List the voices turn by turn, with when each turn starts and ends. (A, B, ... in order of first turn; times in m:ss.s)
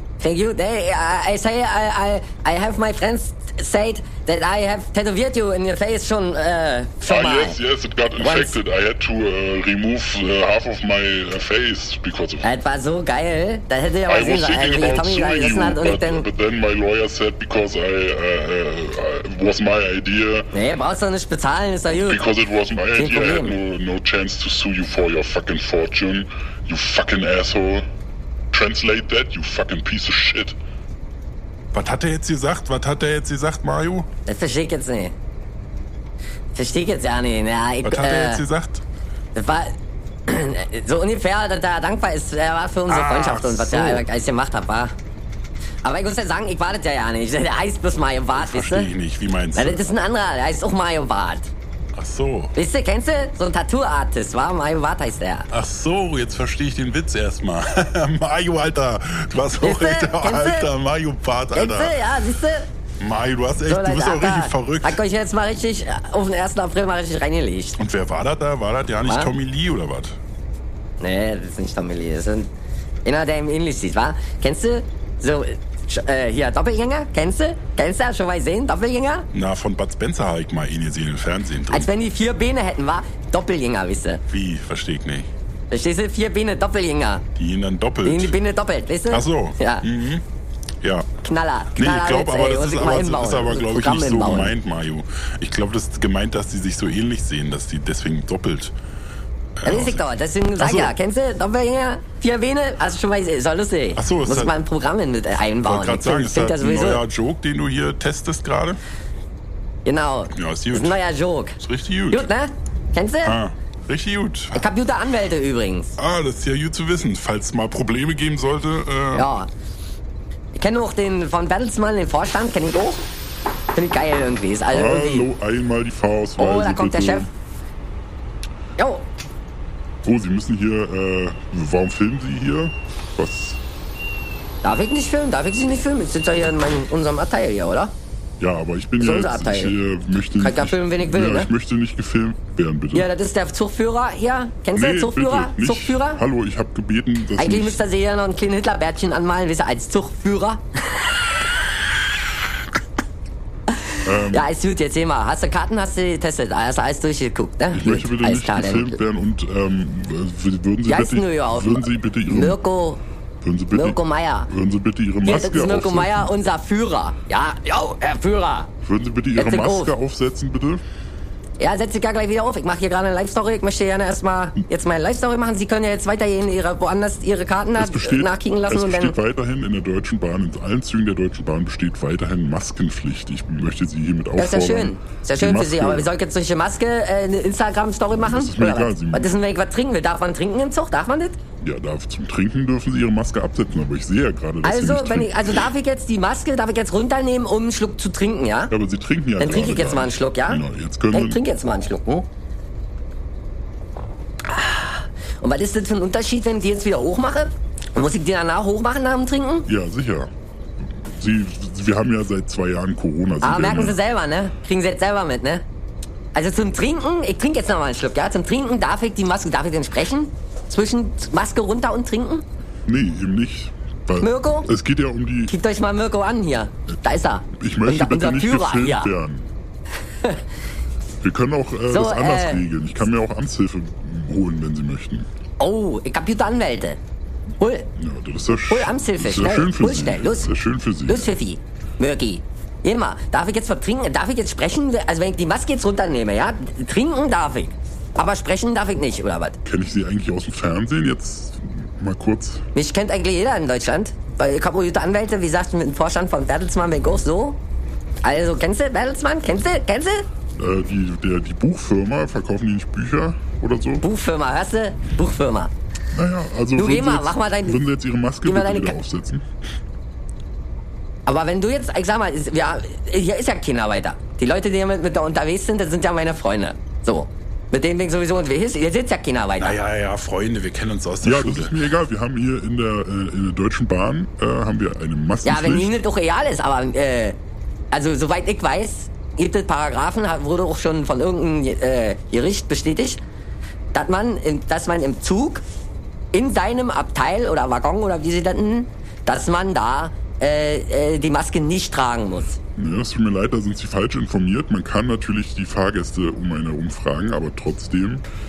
0:00.2-0:07.6 A
0:07.1-0:12.5 B
0:08.2-0:08.6 A
0:12.4-0:16.3 A
0:14.1-0:20.5 B
0:20.5-0:22.2 A
0:21.9-0:27.9 B
0:22.9-0:23.5 A
0:28.5-0:30.6 B
0:31.7-0:34.1 C
0:34.3-0:35.1 A
0:36.6-0:38.4 A
0:37.8-0:38.8 C
0:39.4-0:39.7 A
0:40.3-0:45.0 A
0:42.9-0:44.0 C
0:45.8-0:48.9 A
0:48.4-0:49.8 C
0:49.6-0:51.5 A
0:52.0-0:52.5 C
0:52.6-0:55.5 A
0:55.5-1:01.9 C
0:59.6-1:00.7 A
1:01.5-1:02.7 A
1:03.0-1:05.0 C
1:03.7-1:07.8 A
1:07.8-1:10.2 C
1:09.0-1:09.3 A
1:11.0-1:12.5 A
1:13.0-1:19.3 A
1:19.3-1:21.9 C
1:21.7-1:24.2 A
1:24.3-1:25.3 C
1:25.7-1:27.2 A
1:27.4-1:28.3 C
1:28.0-1:29.9 A
1:29.1-1:30.2 C
1:30.8-1:31.1 C
1:31.2-1:34.5 A
1:31.8-1:38.8 C
1:39.6-1:40.0 C
1:39.7-1:47.0 A
1:40.6-1:40.9 C
1:44.0-1:44.5 C
1:45.6-1:48.8 C
1:49.9-1:51.6 A
1:50.4-1:51.0 C
1:51.6-1:52.3 C
1:52.1-1:53.4 A
1:53.2-1:54.7 C
1:54.5-1:56.0 A
1:56.0-1:59.3 C
1:59.2-1:59.5 A
2:00.6-2:03.0 A
2:03.7-2:05.3 A
2:04.7-2:07.3 B
2:06.4-2:07.3 A
2:08.8-2:09.1 A
2:10.0-2:13.6 B
2:14.6-2:17.9 A
2:18.4-2:23.1 B
2:19.0-2:19.8 A
2:20.3-2:21.5 A
2:22.9-2:26.2 A
2:24.8-2:27.8 B
2:27.4-2:31.1 A
2:34.0-2:39.0 A
2:34.0-2:34.4 B
2:37.7-2:42.6 B
2:40.9-2:43.0 A
2:43.4-2:44.0 B
2:43.7-2:44.5 A
2:44.5-2:46.3 B
2:45.2-2:48.7 A
2:48.8-2:50.8 B
2:49.4-2:49.9 A
2:51.6-2:59.2 A
2:57.8-3:06.1 B
3:04.4-3:11.4 A
3:08.3-3:09.3 B
3:11.6-3:15.3 B
3:14.6-3:18.7 A
3:18.7-3:21.4 B
3:19.4-3:22.3 A
3:24.5-3:29.7 A
3:29.7-3:30.3 B
3:31.1-3:34.0 B
3:33.4-3:35.6 A
3:36.3-3:42.4 A
3:42.9-3:45.5 B
3:44.2-3:44.7 A
3:45.5-3:49.1 A
3:47.6-3:49.5 B
3:51.2-3:55.3 B
3:51.9-3:52.7 A
3:55.6-3:57.0 A
3:57.6-3:57.9 A
3:58.0-4:01.3 B
3:58.7-4:00.5 A
4:01.1-4:09.6 A
4:09.6-4:12.6 B
4:12.8-4:17.6 A
4:18.2-4:20.3 A
4:20.6-4:24.0 B
4:24.0-4:25.7 A
4:26.1-4:29.4 B
4:26.8-4:27.8 A
4:28.4-4:29.0 A
4:31.3-4:39.8 A
4:39.6-4:41.8 C
4:41.2-4:45.9 B
4:45.4-4:47.4 A
4:47.9-4:53.2 A
4:53.9-4:55.6 A
4:56.3-5:02.6 A
5:02.8-5:08.2 B